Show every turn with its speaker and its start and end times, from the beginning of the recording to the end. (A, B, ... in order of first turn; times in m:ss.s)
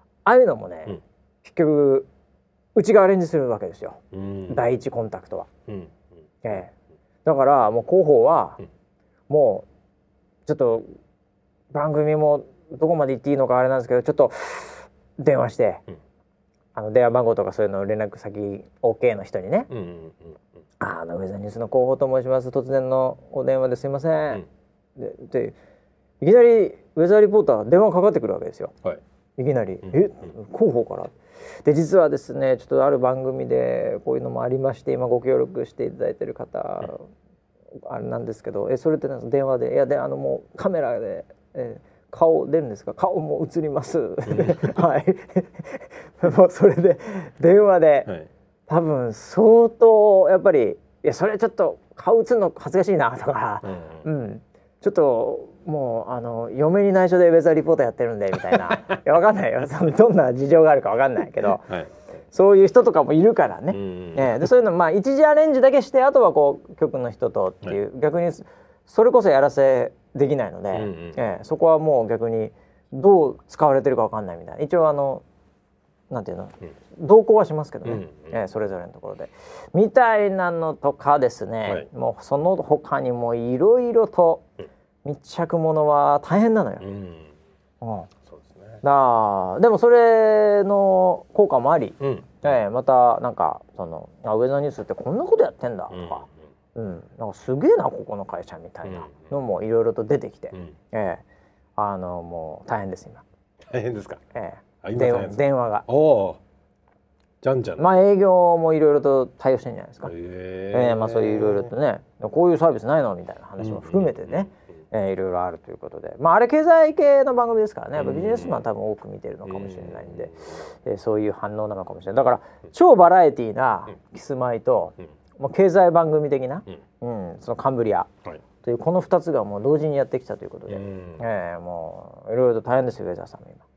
0:00.2-0:02.1 A
0:02.8-0:05.5 A
0:04.1-0:04.6 B
0:05.7-0:06.0 B
0:06.4-0:06.7 A
0:07.2-0:08.6 A
0:09.3-0:09.7 A
0:10.4-0:10.8 A
0:11.7-0:15.8 A
0:16.7-0:19.7 A
0:19.7-0:20.4 B
0:20.8-0:24.4 A
0:25.0-0:25.6 A
0:26.2-0:28.7 A
0:29.4-0:31.1 A
0:31.6-0:37.1 A
0:37.8-0:48.1 A
0:44.3-0:44.8 B
0:48.7-1:01.7 A
0:53.6-0:54.0 B
0:58.5-0:58.8 B
1:01.6-1:01.9 B
1:02.3-1:15.2 A
1:03.7-1:04.5 B
1:10.7-1:11.3 B
1:16.1-1:24.4 A
1:17.8-1:18.3 B
1:25.0-1:26.8 A
1:26.8-1:27.3 B
1:27.8-1:28.1 A
1:28.3-1:28.8 B
1:28.8-1:41.2 A
1:32.0-1:32.5 B
1:35.9-1:36.3 B
1:38.8-1:39.3 B
1:41.8-1:43.2 A
1:43.7-1:44.2 B
1:44.3-1:45.8 A
1:44.8-1:46.4 B
1:47.4-1:47.8 B
1:47.8-1:50.1 A
1:50.0-1:51.7 B
1:50.7-2:08.1 A
1:53.6-1:54.5 B
1:58.0-1:58.6 B
1:59.4-2:00.4 B
2:08.6-2:13.6 A
2:10.7-2:11.2 B